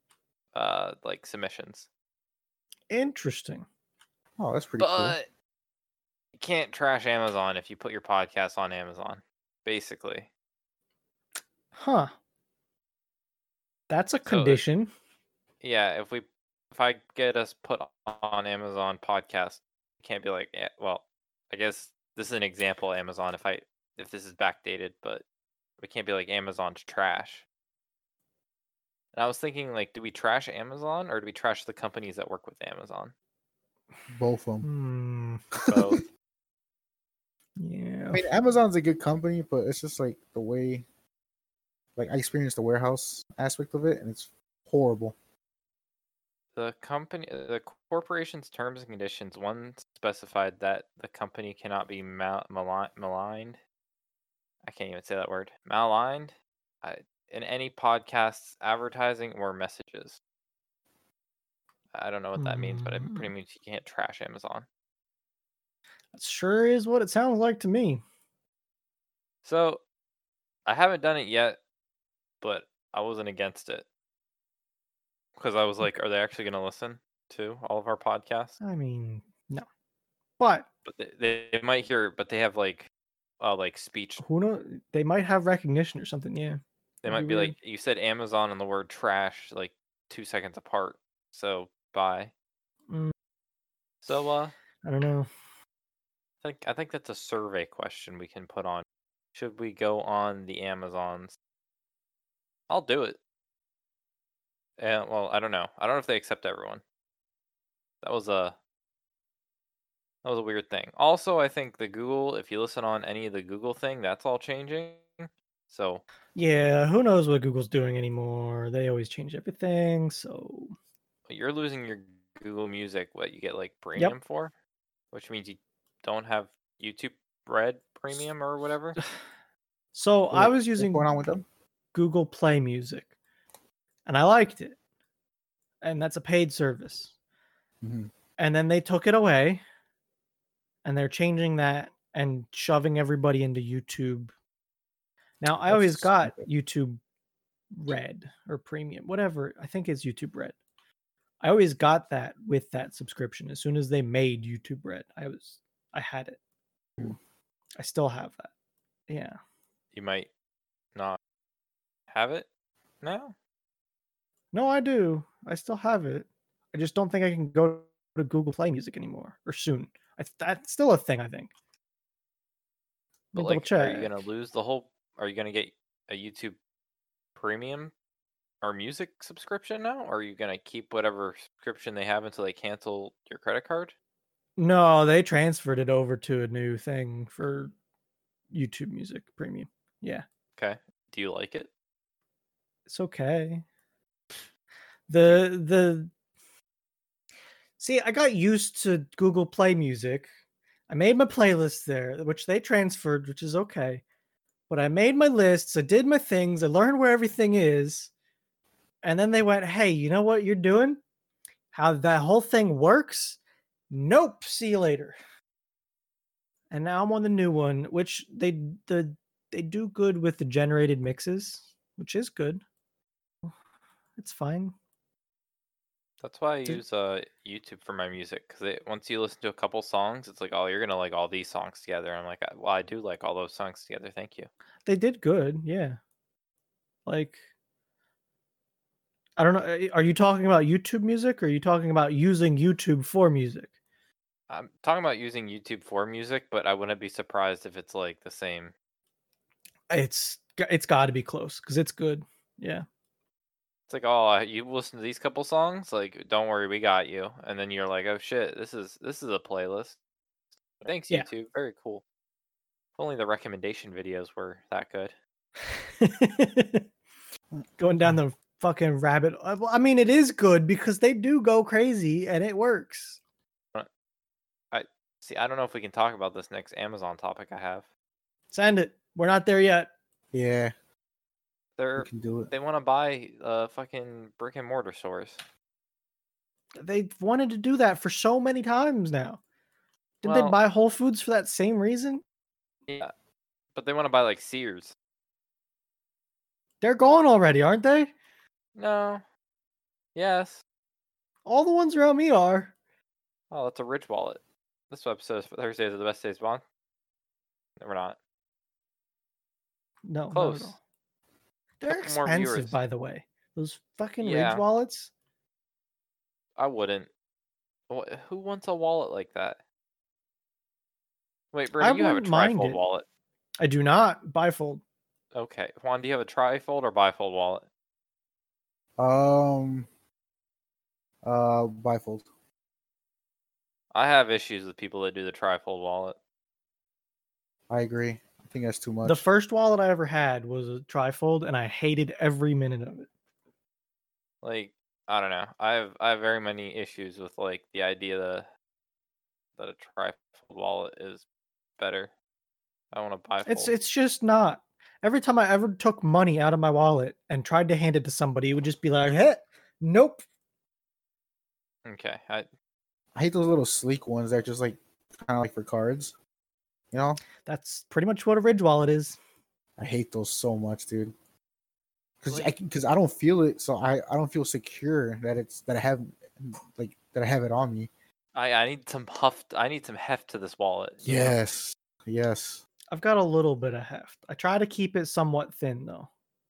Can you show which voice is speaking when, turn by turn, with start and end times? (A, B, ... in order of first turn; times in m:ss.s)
0:00.5-0:01.9 A
0:02.9-0:03.7 B
0:04.4-0:05.2 C
0:04.8-0:05.3 A
0:06.4-0:10.3 A
0:11.7-0:12.1 B
0:13.9-0:14.9 B
0:14.2-0:14.6 A
0:15.6-0:25.2 A
0:25.8-0:27.4 A
0:29.1-0:33.1 A
0:34.1-0:34.7 C
0:34.6-0:35.4 B
0:35.6-0:36.0 C
0:35.7-0:36.0 A
0:37.6-0:38.3 B
0:38.1-0:40.9 C
0:42.0-0:45.2 C
0:46.6-0:53.6 A
0:54.6-1:00.2 A
1:01.9-1:04.7 A
1:02.4-1:03.3 B
1:06.1-1:08.0 B
1:09.4-1:09.8 A
1:10.7-1:11.6 A
1:12.4-1:13.8 A
1:15.4-1:18.6 A
1:18.6-1:19.7 B
1:20.4-1:20.7 B
1:20.8-1:22.9 A
1:23.4-1:24.2 A
1:24.2-1:27.6 B
1:27.0-1:32.3 A
1:34.0-1:34.5 A
1:34.8-1:35.3 B
1:36.4-1:41.4 A
1:42.7-1:43.2 A
1:44.8-1:46.8 A
1:48.0-1:48.6 A
1:50.2-1:56.0 A
1:56.4-2:00.7 B
2:01.3-2:04.5 A
2:05.1-2:09.0 A
2:09.9-2:11.1 B
2:10.3-2:11.4 C
2:11.9-2:13.1 B
2:14.1-2:14.8 B
2:15.8-2:17.1 B
2:17.8-2:18.1 C
2:18.4-2:19.6 B
2:20.8-2:24.3 B
2:25.4-2:27.0 B
2:25.7-2:26.5 C
2:27.7-2:30.6 B
2:31.4-2:36.4 B
2:37.8-2:38.5 B
2:39.1-2:39.4 B
2:39.9-2:40.3 A
2:42.1-2:42.5 A
2:43.0-2:43.4 A
2:44.5-2:51.5 B
2:53.3-2:54.2 B
2:53.4-2:56.6 A
2:57.4-2:57.9 A
2:58.6-3:03.9 A
3:04.6-3:07.7 B
3:08.5-3:10.2 B
3:10.6-3:11.7 A
3:12.9-3:13.6 B
3:15.1-3:16.1 B
3:17.8-3:20.3 B
3:20.9-3:24.0 B
3:24.7-3:28.1 B
3:29.0-3:31.0 B
3:31.7-3:33.4 B
3:33.9-3:35.2 B
3:36.7-3:42.6 B
3:44.2-3:44.8 B
3:46.2-3:54.5 A
3:54.9-3:56.0 B
3:57.1-3:57.4 B
3:59.4-4:03.7 B
4:04.5-4:08.7 A
4:09.9-4:12.9 B
4:13.9-4:20.0 A
4:20.8-4:22.0 A
4:23.0-4:25.2 A
4:26.0-4:26.9 B
4:27.8-4:33.2 B
4:34.7-4:37.9 A
4:38.5-4:39.9 B
4:40.3-4:40.7 C
4:41.8-4:45.4 A
4:42.0-4:42.5 C
4:46.8-4:49.4 B
4:50.2-4:52.2 B
4:50.2-4:50.6 A
4:53.8-4:54.9 A
4:56.8-4:58.1 B
4:58.8-4:59.2 A
5:00.2-5:00.6 A
5:01.5-5:02.8 B
5:03.5-5:06.6 A
5:07.8-5:08.2 A
5:10.1-5:10.8 B
5:10.3-5:10.8 A
5:11.8-5:15.1 B
5:11.9-5:12.8 A
5:14.2-5:14.6 A
5:16.6-5:17.1 A
5:17.9-5:19.6 A
5:21.5-5:23.0 A
5:21.8-5:22.8 B
5:23.6-5:24.8 B
5:25.3-5:27.7 A
5:29.0-5:29.9 C
5:31.2-5:32.3 C
5:33.9-5:36.2 A
5:37.7-5:39.3 C
5:39.0-5:43.1 B
5:44.4-5:48.5 A
5:49.6-5:51.2 A
5:51.8-5:52.1 A
5:52.9-5:53.7 A
5:53.5-6:00.2 B
6:01.8-6:02.5 A
6:03.2-6:06.2 C
6:06.9-6:07.2 C
6:07.4-6:09.2 B
6:09.8-6:11.2 C
6:12.2-6:17.9 C
6:18.4-6:21.4 A
6:21.0-6:22.6 C
6:22.9-6:26.1 B